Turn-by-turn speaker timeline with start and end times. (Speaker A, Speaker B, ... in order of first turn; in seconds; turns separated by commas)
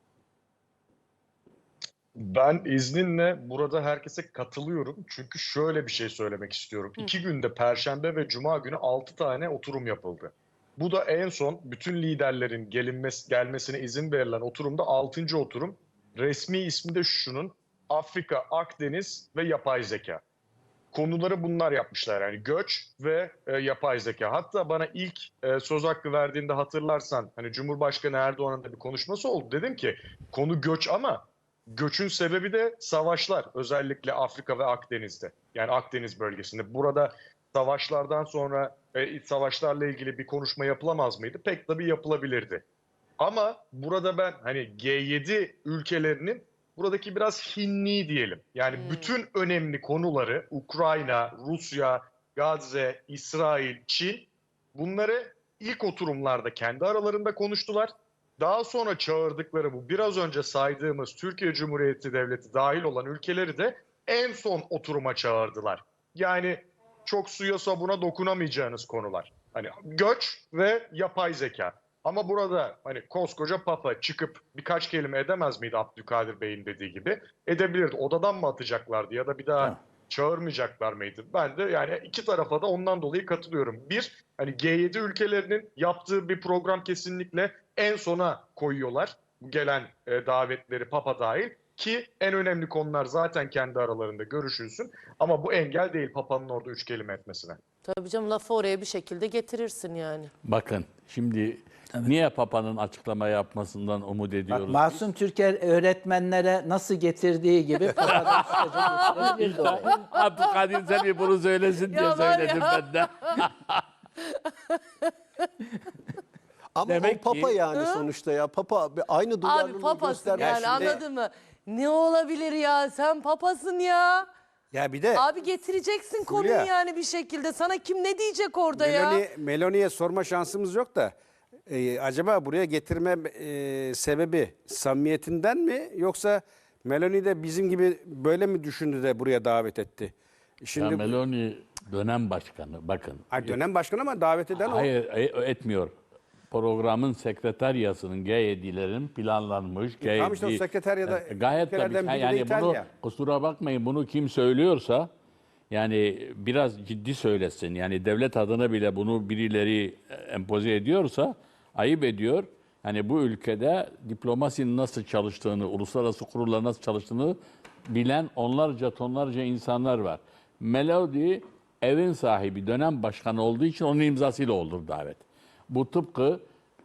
Speaker A: 2.1-20.2, Speaker A: 20.9-42.6, Speaker A: 43.2-97.6, Speaker B: 48.7-49.1, Speaker B: 97.8-100.3, Speaker C: 100.4-105.0, Speaker D: 104.5-109.9, Speaker C: 108.0-113.8, Speaker B: 108.0-109.1, Speaker B: 109.6-111.0, Speaker B: 111.9-113.4, Speaker B: 114.2-115.1, Speaker E: 116.7-121.0, Speaker C: 116.8-117.5, Speaker B: 117.8-118.0, Speaker B: 119.4-124.3, Speaker F: 120.4-121.0, Speaker F: 124.7-125.2, Speaker B: 125.1-129.2, Speaker F: 126.2-126.7, Speaker F: 128.7-131.1, Speaker F: 131.7-141.2, Speaker C: 140.8-143.6, Speaker F: 143.3-144.9, Speaker C: 144.6-145.9, Speaker C: 146.5-155.1, Speaker F: 150.0-152.8, Speaker C: 155.7-167.4, Speaker C: 167.9-176.4